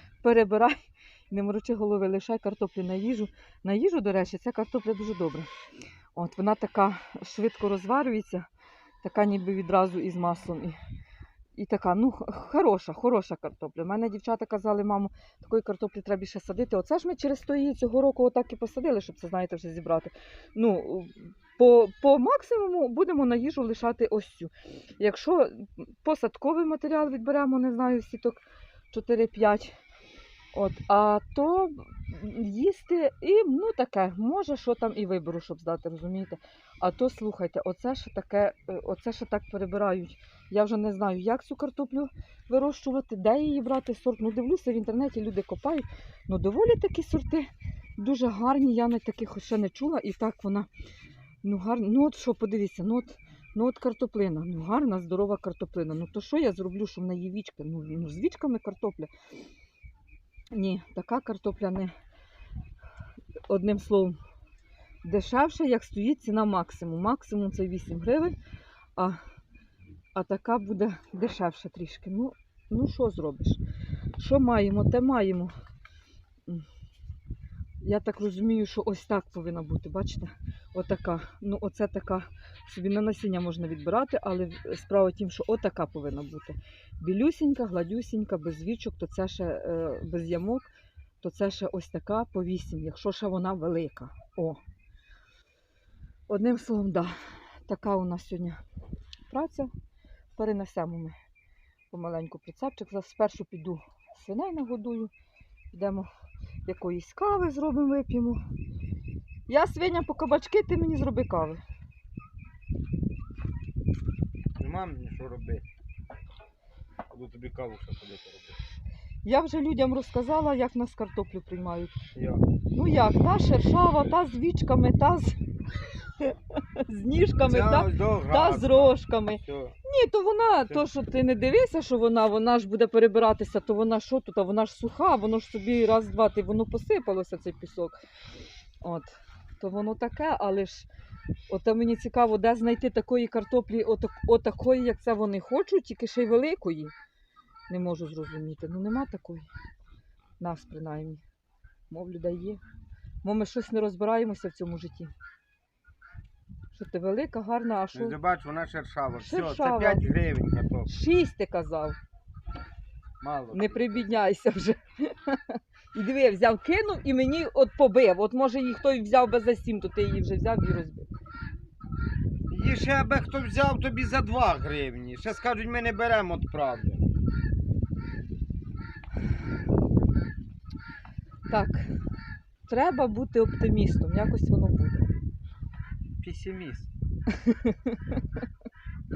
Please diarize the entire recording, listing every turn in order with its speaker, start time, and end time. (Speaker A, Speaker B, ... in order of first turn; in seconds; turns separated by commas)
Speaker A: 0.2-5.5, Speaker A: 6.2-8.5, Speaker A: 9.0-10.8, Speaker A: 11.6-29.7, Speaker A: 30.5-50.7, Speaker A: 51.4-59.1, Speaker A: 60.5-61.9, Speaker A: 63.5-64.2, Speaker A: 65.0-68.4, Speaker A: 70.2-73.6, Speaker A: 74.2-75.5, Speaker A: 77.8-90.7, Speaker A: 91.2-94.6, Speaker A: 96.3-97.1, Speaker A: 97.7-98.6, Speaker A: 99.3-99.7, Speaker A: 100.4-101.2, Speaker A: 101.9-105.1, Speaker A: 105.7-106.1, Speaker A: 106.7-108.4, Speaker A: 109.5-111.6, Speaker B: 114.6-115.7, Speaker B: 117.1-118.6, Speaker A: 119.2-122.0, Speaker B: 122.1-122.4, Speaker A: 122.7-125.4, Speaker A: 126.2-138.0, Speaker B: 127.5-129.8, Speaker A: 138.8-140.9, Speaker A: 141.5-146.9, Speaker A: 147.7-149.5, Speaker A: 150.4-151.2, Speaker A: 151.9-152.6, Speaker A: 153.2-155.1, Speaker A: 156.7-158.2, Speaker B: 157.9-160.9, Speaker A: 159.2-160.0, Speaker A: 160.9-162.0, Speaker B: 163.2-164.1, Speaker A: 163.5-171.1, Speaker B: 172.5-177.1, Speaker A: 181.5-181.9, Speaker A: 182.7-185.1, Speaker B: 186.2-186.9, Speaker A: 187.3-188.0